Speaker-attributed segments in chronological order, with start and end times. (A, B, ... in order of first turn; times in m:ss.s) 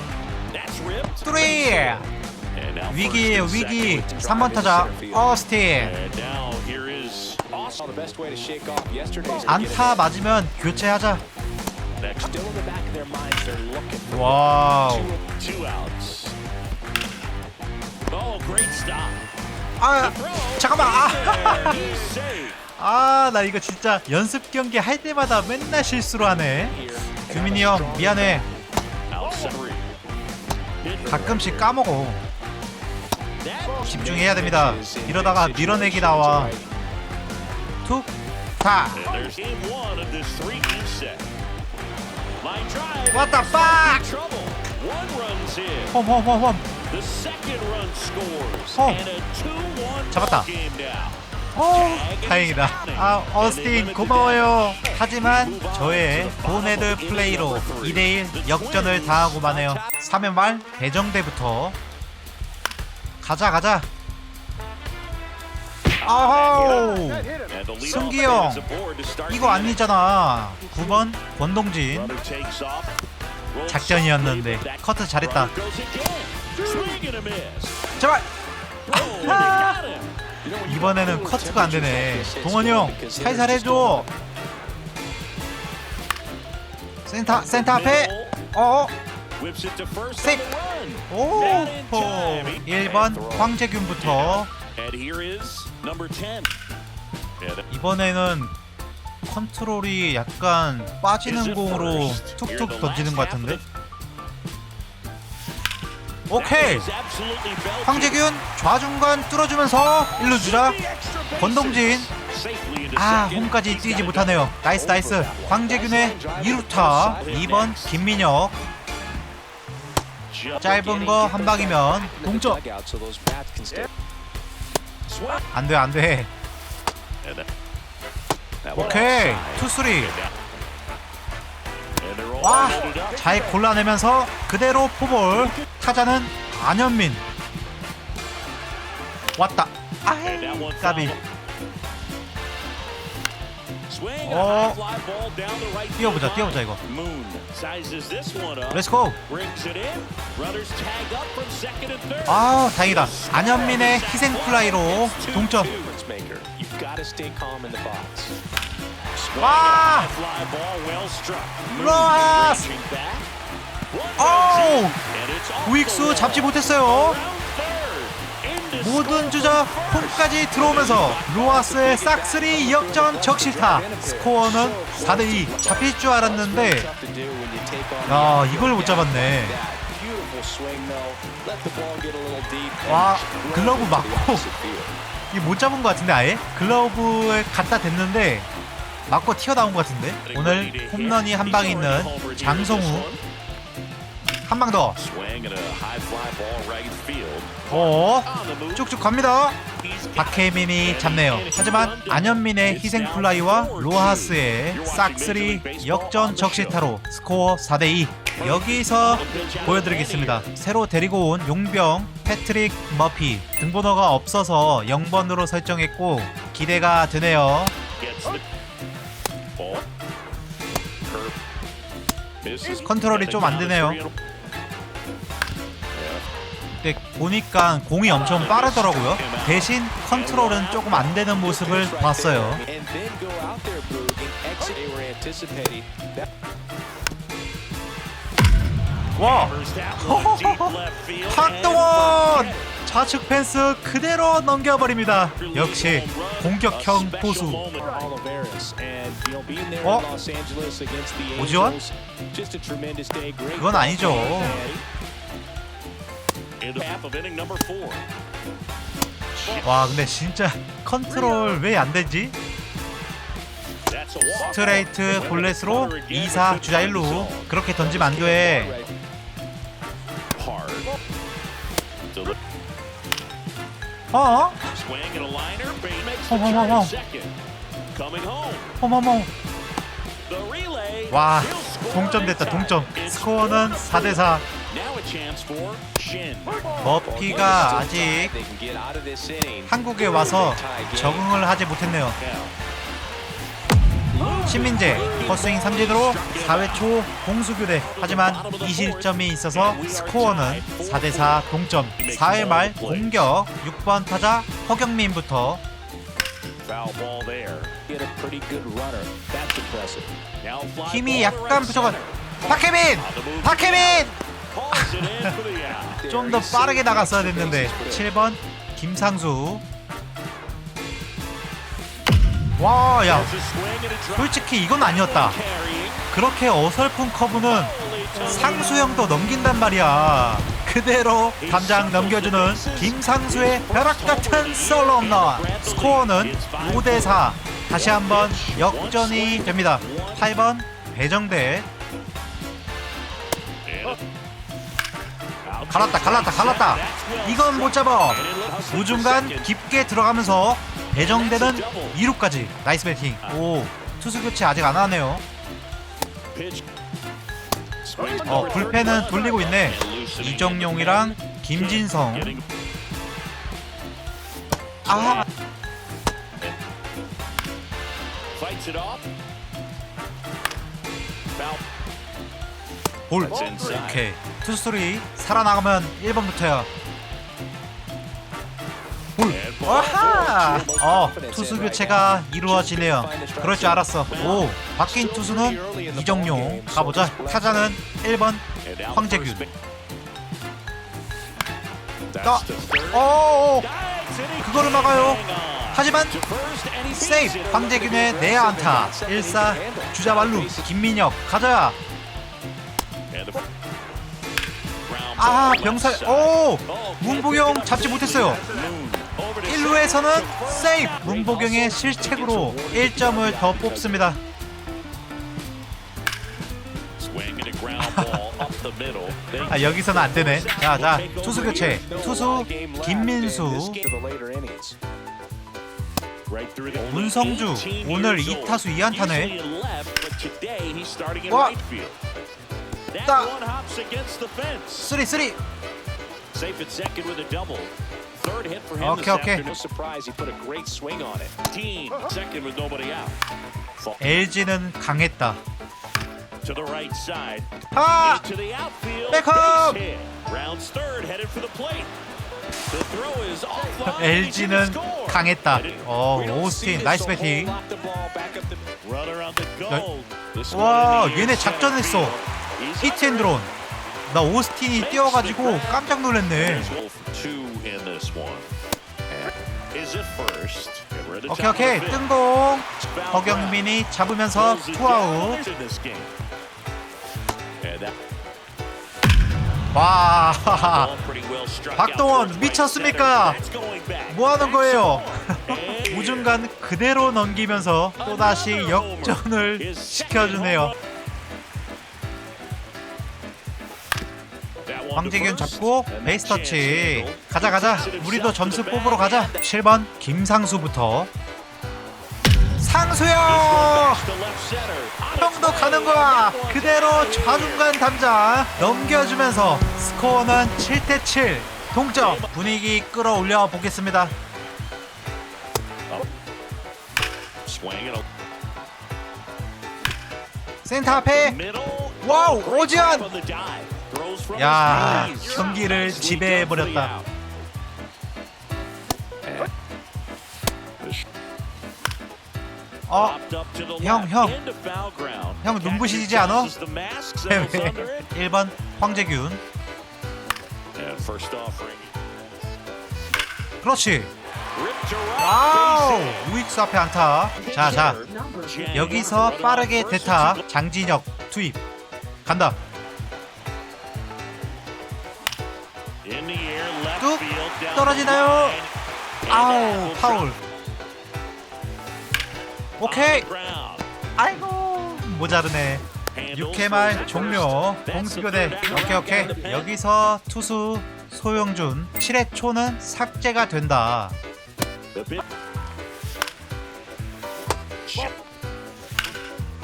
0:00.5-0:04.1 A
0:01.2-0:02.0 B
0:02.9-0:05.9 B
0:03.9-0:05.3 C
0:05.8-0:07.8 A
0:07.7-0:10.0 C
0:09.4-0:11.2 B
0:12.0-0:12.3 A
0:12.2-0:15.2 C
0:14.1-0:15.1 B
0:15.3-0:16.3 A
0:18.1-0:19.2 A
0:19.8-0:21.8 B
0:20.0-0:22.6 A
0:21.2-0:22.1 C
0:22.8-0:28.4 B
0:26.5-0:28.5 C
0:29.1-0:29.8 A
0:30.8-0:31.7 A
0:31.0-0:32.2 B
0:33.4-0:34.2 A
0:33.8-0:36.7 C
0:33.8-0:36.5 B
0:38.6-0:39.0 B
0:38.9-0:41.3 A
0:42.4-0:46.0 A
0:43.1-0:44.0 B
0:45.9-0:46.6 B
0:46.8-1:00.0 A
0:48.7-0:49.0 B
0:50.1-0:50.5 B
0:51.5-1:01.8 B
1:03.2-1:03.9 B
1:06.0-1:09.8 A
1:06.0-1:08.6 B
1:09.3-1:12.1 B
1:11.9-1:12.9 A
1:13.5-1:17.9 A
1:13.7-1:15.5 B
1:18.0-1:18.2 B
1:18.8-1:20.1 A
1:18.9-1:19.8 B
1:20.4-1:24.1 C
1:20.6-1:24.0 B
1:27.0-1:28.9 B
1:27.3-1:28.4 A
1:29.4-1:36.5 A
1:31.1-1:34.5 B
1:33.0-1:33.5 C
1:37.4-1:37.6 A
1:37.7-1:38.5 B
1:39.2-1:43.6 B
1:41.2-1:43.6 A
1:46.3-1:46.9 B
1:46.3-1:48.2 A
1:47.8-1:50.8 B
1:50.2-1:54.5 A
1:51.4-1:52.1 B
1:52.9-1:58.6 B
1:54.6-1:57.5 C
1:57.2-1:58.3 A
2:00.3-2:00.8 A
2:00.6-2:02.6 B
2:00.6-2:03.9 C
2:05.1-2:05.4 A
2:05.5-2:06.3 B
2:08.6-2:10.3 A
2:08.7-2:10.1 B
2:12.0-2:13.3 A
2:12.4-2:17.2 B
2:15.3-2:15.6 A
2:19.4-2:21.1 B
2:20.2-2:21.2 A
2:23.9-2:36.0 A
2:24.2-2:24.8 B
2:26.0-2:26.8 B
2:28.7-2:29.2 B
2:32.2-2:35.7 B
2:35.3-2:38.4 C
2:39.1-2:43.3 A
2:39.4-2:40.1 B
2:41.7-2:42.7 B
2:43.9-2:51.7 A
2:44.2-2:45.0 B
2:45.6-2:47.2 B
2:48.8-2:56.9 B
2:51.4-3:04.9 C
2:58.0-2:59.6 B
3:02.9-3:04.4 B
3:05.3-3:08.5 B
3:09.1-3:13.1 B
3:10.2-3:13.2 A
3:14.4-3:15.0 B
3:14.9-3:18.9 A
3:17.7-3:19.6 B
3:19.8-3:26.8 A
3:20.2-3:37.7 B
3:28.4-3:30.5 A
3:29.2-3:29.6 C
3:38.0-3:38.4 A
3:39.6-3:39.8 A
3:41.0-3:41.3 A
3:42.4-3:44.1 A
3:42.8-3:44.0 B
3:45.9-3:46.2 A
3:46.8-3:52.6 B
3:48.0-3:51.6 A
3:51.2-3:56.3 C
3:59.2-4:00.7 B
3:59.2-4:02.7 A
4:01.3-4:07.6 B
4:05.4-4:08.0 A
4:07.8-4:14.8 C
4:11.3-4:11.8 B
4:13.5-4:14.6 B
4:14.0-4:14.8 A
4:16.6-4:18.0 A
4:19.3-4:19.7 A
4:19.6-4:22.3 B
4:23.9-4:27.5 A
4:24.4-4:28.7 B
4:27.8-4:28.9 C
4:30.3-4:30.9 A
4:34.1-4:34.7 B
4:34.7-4:37.3 A
4:36.3-4:36.9 B
4:37.9-4:38.8 A
4:38.8-4:39.3 B
4:40.2-4:47.8 A
4:41.1-4:44.4 B
4:46.6-4:51.3 C
4:46.8-4:48.3 B
4:49.7-4:52.2 B
4:51.8-4:52.6 A
4:54.1-4:55.4 C
4:54.1-4:56.9 A
4:54.4-5:05.6 B
4:57.7-5:01.4 A
5:02.0-5:03.3 A
5:06.6-5:07.8 A
5:07.9-5:10.1 C
5:10.4-5:16.0 A
5:10.8-5:14.1 B
5:14.7-5:15.3 B
5:15.8-5:18.1 C
5:16.1-5:19.6 B
5:17.3-5:17.9 A
5:22.6-5:23.3 B
5:23.1-5:26.1 A
5:24.1-5:25.4 B
5:26.1-5:41.7 B
5:27.4-5:28.7 A
5:31.4-5:40.3 A
5:43.6-5:44.0 A
5:45.4-5:49.5 A
5:45.7-5:55.2 B
5:50.9-5:52.0 A
5:56.3-5:56.6 A
5:57.8-6:02.4 A
5:58.0-5:58.6 C
5:58.2-6:02.4 B
6:04.8-6:05.2 A
6:04.9-6:05.2 B
6:08.3-6:09.0 A
6:11.4-6:11.6 A
6:13.1-6:16.7 B
6:13.2-6:14.0 A
6:13.3-6:13.9 C
6:19.2-6:29.4 B
6:19.3-6:20.7 A
6:19.8-6:27.8 C
6:24.1-6:24.5 A
6:28.6-6:29.5 A
6:32.1-6:38.1 A
6:32.2-6:33.7 B
6:34.4-6:35.2 B
6:35.7-6:36.1 B
6:36.9-6:41.8 B
6:37.6-6:40.7 C
6:43.1-6:43.4 A
6:44.8-6:51.5 A
6:45.2-6:48.4 B
6:49.4-6:54.2 B
6:51.3-6:54.1 C
6:57.0-7:02.0 A
6:57.8-6:58.4 B
6:59.5-7:03.8 B
7:01.2-7:04.8 C
7:06.3-7:12.0 A
7:06.8-7:09.3 B
7:11.3-7:11.6 B
7:12.9-7:14.9 A
7:13.0-7:13.3 B
7:14.8-7:15.4 B
7:16.3-7:19.5 A
7:18.8-7:19.4 B
7:19.4-7:21.4 C
7:21.5-7:23.2 A
7:23.8-7:24.3 A
7:24.0-7:25.4 B
7:26.4-7:31.9 A
7:27.7-7:28.2 B
7:29.1-7:29.8 B
7:32.7-7:35.9 A
7:34.0-7:37.6 B
7:36.1-7:38.6 C
7:38.8-7:43.4 A
7:40.5-7:42.2 B
7:42.8-7:43.5 B
7:44.1-7:46.7 B
7:44.7-7:48.5 A
7:49.1-7:52.1 A
7:51.3-7:55.4 B
7:52.7-7:53.7 A
7:54.3-7:56.1 A
7:57.6-7:57.9 A
7:59.7-8:00.9 B
8:00.4-8:06.3 A
8:01.7-8:03.4 B
8:04.1-8:10.7 B
8:08.0-8:10.7 A
8:14.6-8:19.4 A
8:15.0-8:21.1 B
8:22.6-8:24.0 B
8:23.2-8:27.7 A
8:25.2-8:34.1 B
8:31.9-8:32.3 A
8:37.4-8:38.0 A
8:40.6-8:41.4 B
8:40.8-8:47.1 A
8:42.0-8:43.1 B
8:44.3-8:46.9 B
8:52.9-8:53.2 B
8:52.9-8:58.1 A
8:53.8-8:54.3 B
8:55.4-8:56.5 B
8:57.3-8:59.4 B
9:00.7-9:01.9 A
9:03.6-9:04.1 B
9:04.5-9:06.4 A
9:05.2-9:08.0 B
9:07.3-9:10.4 A
9:08.7-9:11.6 B
9:12.2-9:12.6 B
9:16.0-9:18.7 A
9:17.7-9:18.6 B
9:19.2-9:20.3 A
9:19.3-9:20.4 B
9:22.8-9:23.2 B
9:22.8-9:23.8 A
9:24.2-9:34.2 B
9:26.1-9:29.7 A
9:34.9-9:35.2 A
9:37.8-9:38.1 A